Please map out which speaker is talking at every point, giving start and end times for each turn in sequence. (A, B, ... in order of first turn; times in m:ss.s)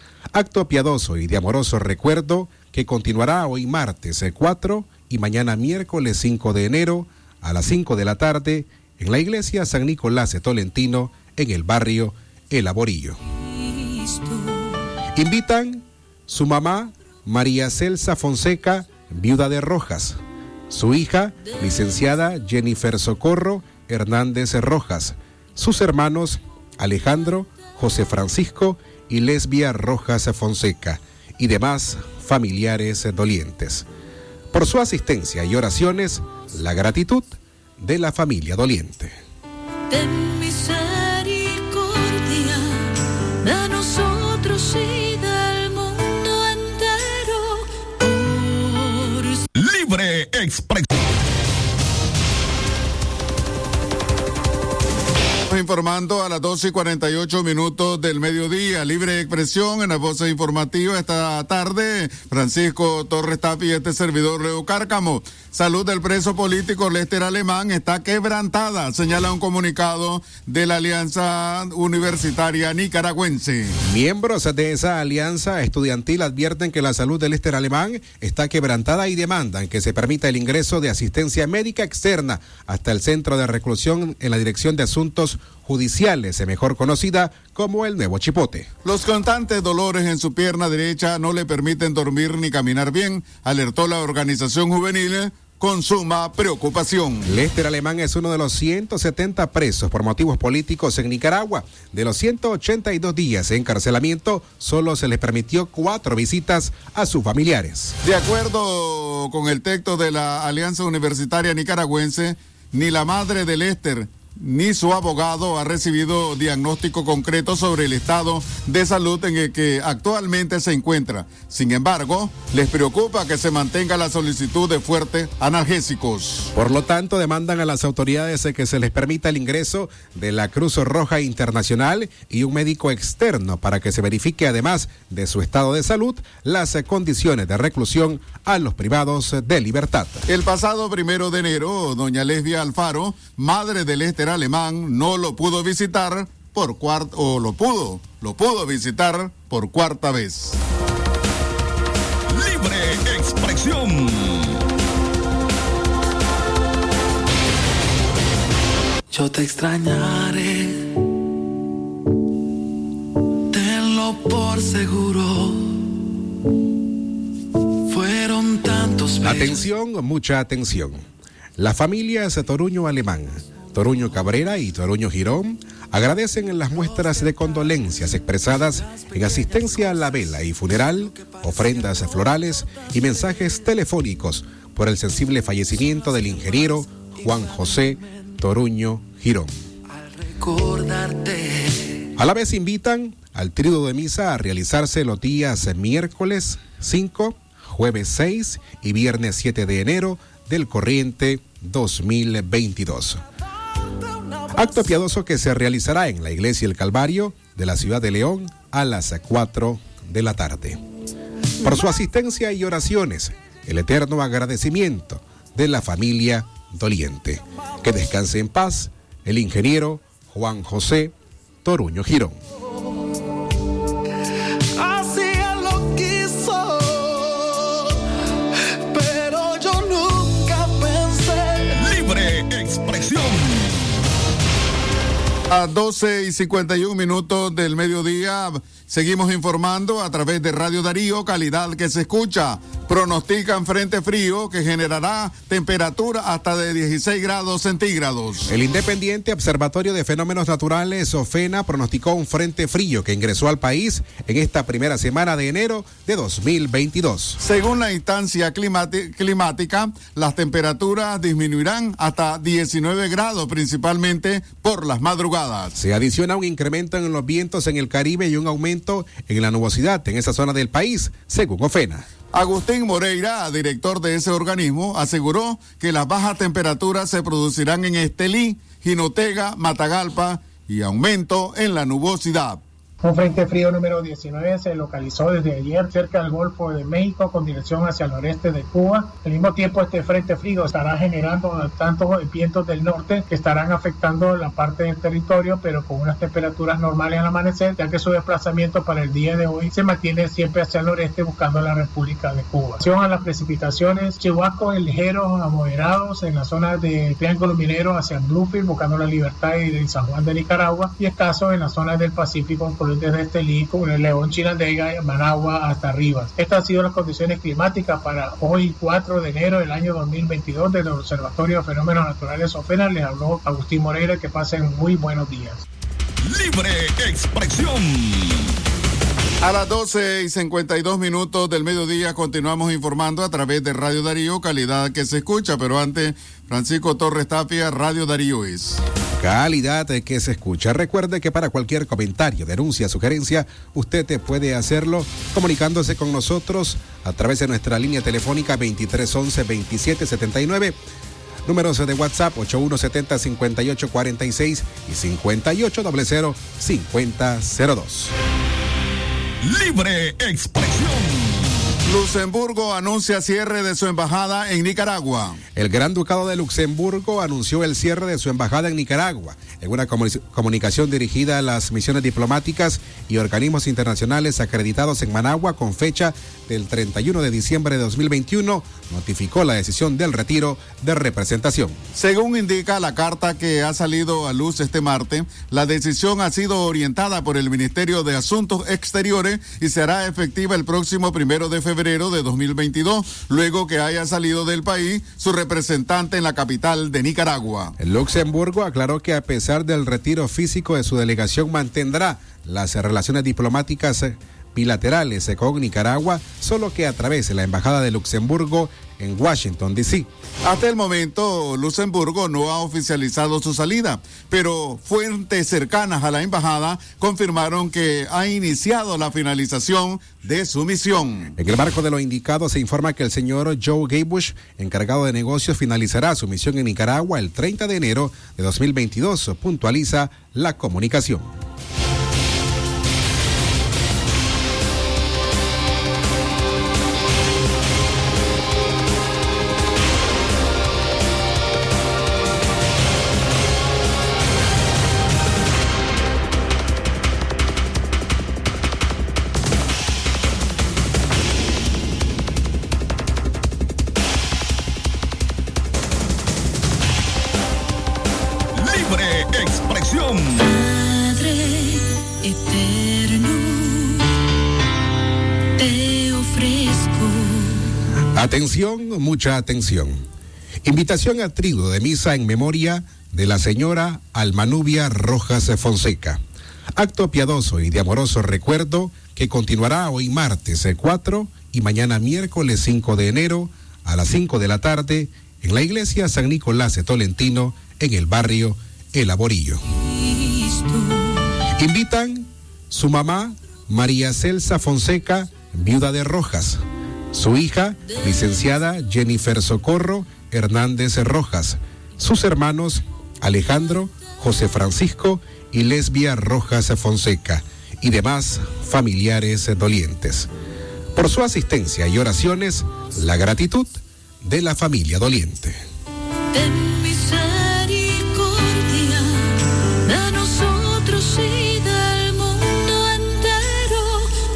0:00.3-0:13.2 A
0:13.5-0:14.7 B
0:15.2-0:20.2 A
0:20.7-0:33.8 A
0:34.5-0:39.2 A
0:39.9-0:42.9 B
0:43.4-0:49.4 B
0:49.5-0:50.9 C
0:55.5-1:13.8 D
1:13.8-1:28.7 A
1:28.8-1:37.3 D
1:37.2-1:48.0 A
1:48.0-2:06.5 D
2:06.5-2:20.3 A
2:20.3-2:30.6 D
2:32.3-2:34.6 C
2:39.1-2:40.8 E
2:43.5-2:45.7 E
2:47.9-2:49.6 E
2:49.2-2:51.0 A
2:51.6-3:09.5 A
2:56.6-3:03.7 E
3:05.8-3:08.4 E
3:09.9-3:12.0 E
3:12.2-3:23.2 A
3:24.5-3:30.8 A
3:31.6-3:42.4 A
3:44.8-3:47.9 E
3:48.9-3:51.8 E
3:51.7-3:54.0 C
3:55.5-4:08.5 D
4:08.5-4:17.4 A
4:17.4-4:25.7 D
4:25.8-4:32.1 A
4:32.3-4:42.6 D
4:43.0-5:25.6 F
5:26.2-5:28.6 C
5:29.4-5:38.8 D
5:39.2-5:50.8 A
5:51.4-5:58.1 A
5:59.4-6:01.8 C
6:01.8-6:05.4 D
6:05.5-6:21.8 A
6:21.9-6:37.8 D
6:37.8-6:50.1 A
6:50.4-7:01.3 D
7:01.4-7:11.3 A
7:38.5-7:40.5 C
7:40.4-7:44.1 B
7:45.6-7:47.7 B
7:48.1-7:50.0 A
7:50.6-7:56.2 A
7:56.8-8:09.6 A
8:10.0-8:11.2 B
8:11.6-8:30.3 A
8:30.9-8:35.6 A
8:36.3-8:44.1 B